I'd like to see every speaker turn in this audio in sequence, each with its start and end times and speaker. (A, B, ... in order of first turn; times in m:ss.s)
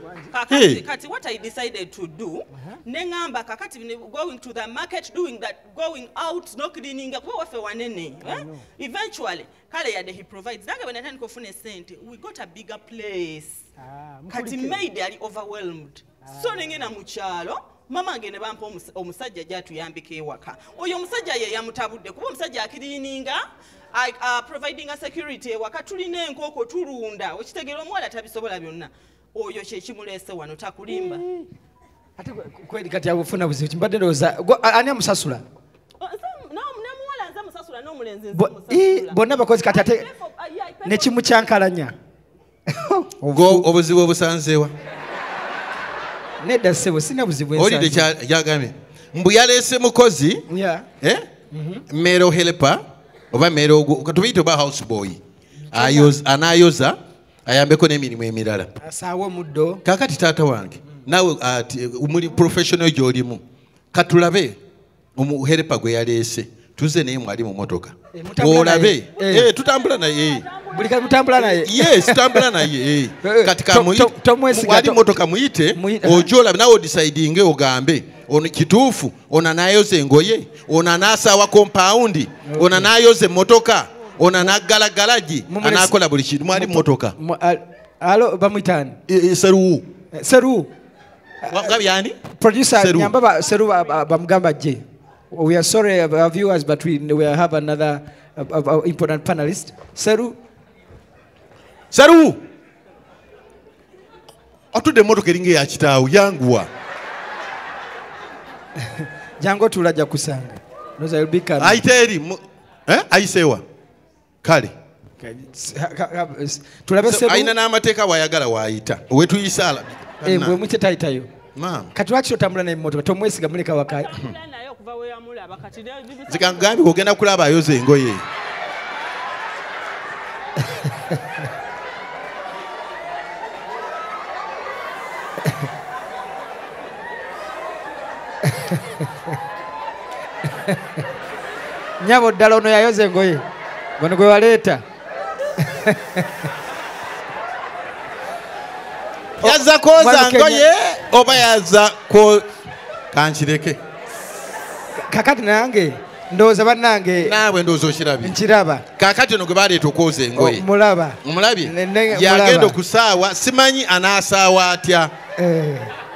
0:00.3-0:13.7 A
0:00.5-0:00.8 B
0:08.2-0:08.6 C
0:13.8-0:14.8 C
0:14.3-0:31.2 A
0:16.2-0:16.5 C
0:30.9-0:31.4 C
0:32.2-0:35.4 C
0:36.0-0:41.3 A
0:38.3-0:40.0 C
0:40.8-0:41.9 C
0:42.7-0:43.6 C
0:43.3-0:44.7 B
0:46.4-0:48.1 C
0:47.5-0:50.4 B
0:50.5-0:50.8 C
0:51.5-0:51.8 C
0:51.9-0:52.8 B
0:53.3-0:55.2 B
0:55.7-0:56.1 C
0:55.7-0:58.7 B
0:58.8-0:59.8 C
0:59.8-1:03.4 B
1:03.9-1:04.6 B
1:05.2-1:10.4 B
1:08.1-1:09.5 C
1:09.2-1:11.6 A
1:10.7-1:12.4 C
1:11.3-1:27.2 B
1:13.2-1:15.2 C
1:15.7-1:16.3 C
1:22.5-1:22.9 C
1:25.5-1:25.9 C
1:26.5-1:29.0 C
1:29.1-1:29.8 B
1:30.1-1:30.7 C
1:31.5-1:32.2 B
1:32.3-1:40.4 C
1:32.8-1:33.1 B
1:41.9-1:42.4 B
1:44.7-1:46.7 B
1:48.8-1:51.8 C
1:51.6-1:53.6 B
1:54.4-1:54.7 B
1:55.2-1:57.5 C
1:57.0-2:00.6 B
2:00.2-2:01.3 C
2:01.5-2:01.9 B
2:01.9-2:04.1 C
2:03.9-2:06.7 A
2:06.3-2:08.2 B
2:18.5-2:19.1 C
2:20.5-2:20.8 C
2:22.0-2:23.4 C
2:24.0-2:24.8 C
2:25.6-2:26.4 C
2:29.4-2:32.5 B
2:29.4-2:30.7 C
2:33.1-2:33.8 B
2:35.0-2:37.4 C
2:37.2-2:38.4 B
2:38.2-2:38.8 C
2:39.0-2:40.7 B
2:40.3-2:42.8 C
2:41.2-2:45.1 B
2:45.4-2:45.9 C